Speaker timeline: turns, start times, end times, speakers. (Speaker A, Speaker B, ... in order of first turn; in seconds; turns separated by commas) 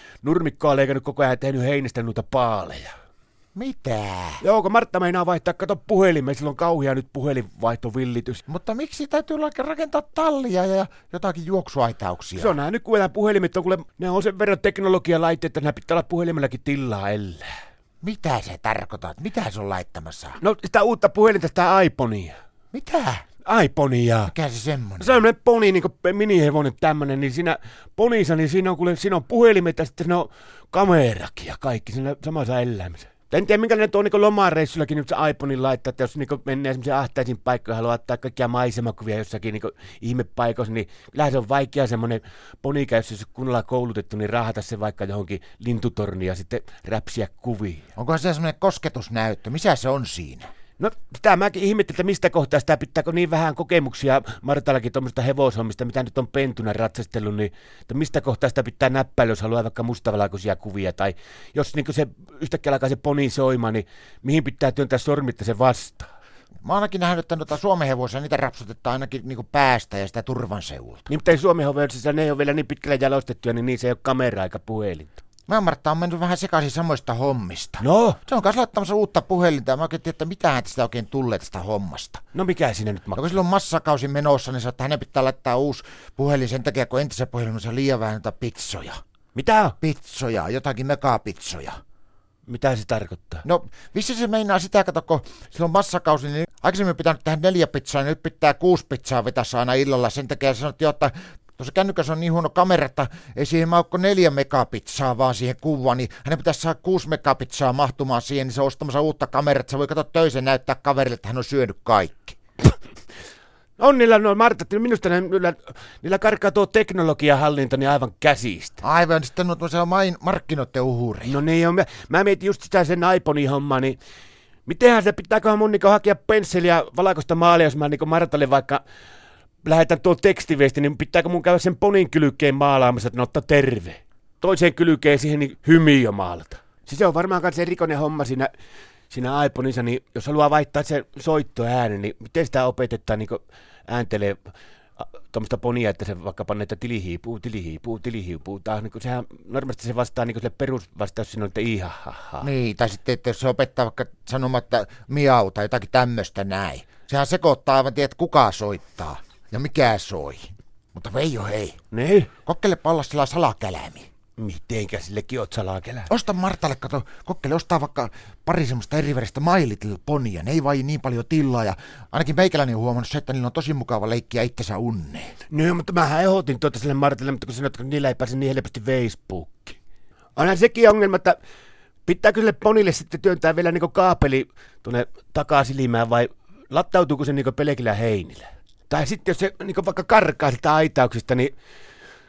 Speaker A: 0.2-2.9, Speaker B: 3.5-4.4, Speaker A: 4.4-8.4, Speaker B: 8.5-12.6, Speaker A: 12.3-17.5, Speaker B: 18.0-20.4, Speaker A: 20.4-22.4, Speaker B: 22.7-23.2, Speaker A: 23.4-24.3, Speaker B: 24.3-25.2, Speaker A: 25.0-47.9, Speaker B: 48.0-50.5, Speaker A: 50.8-66.1, Speaker B: 66.6-71.1, Speaker A: 71.1-75.2, Speaker B: 75.5-82.2, Speaker A: 77.8-78.2, Speaker A: 82.3-83.4, Speaker B: 83.2-89.0, Speaker A: 89.3-89.8, Speaker B: 89.8-91.8, Speaker A: 92.5-93.4, Speaker B: 93.4-112.4, Speaker A: 113.8-118.8, Speaker B: 118.8-121.4, Speaker A: 121.2-124.0, Speaker A: 124.7-128.8, Speaker A: 129.6-138.5, Speaker A: 139.1-144.5, Speaker A: 145.0-152.5, Speaker B: 152.4-161.8, Speaker A: 161.9-162.3, Speaker B: 162.4-164.1, Speaker A: 164.4-166.1, Speaker B: 166.1-175.3, Speaker A: 175.5-179.8, Speaker A: 180.3-181.4, Speaker A: 182.1-191.5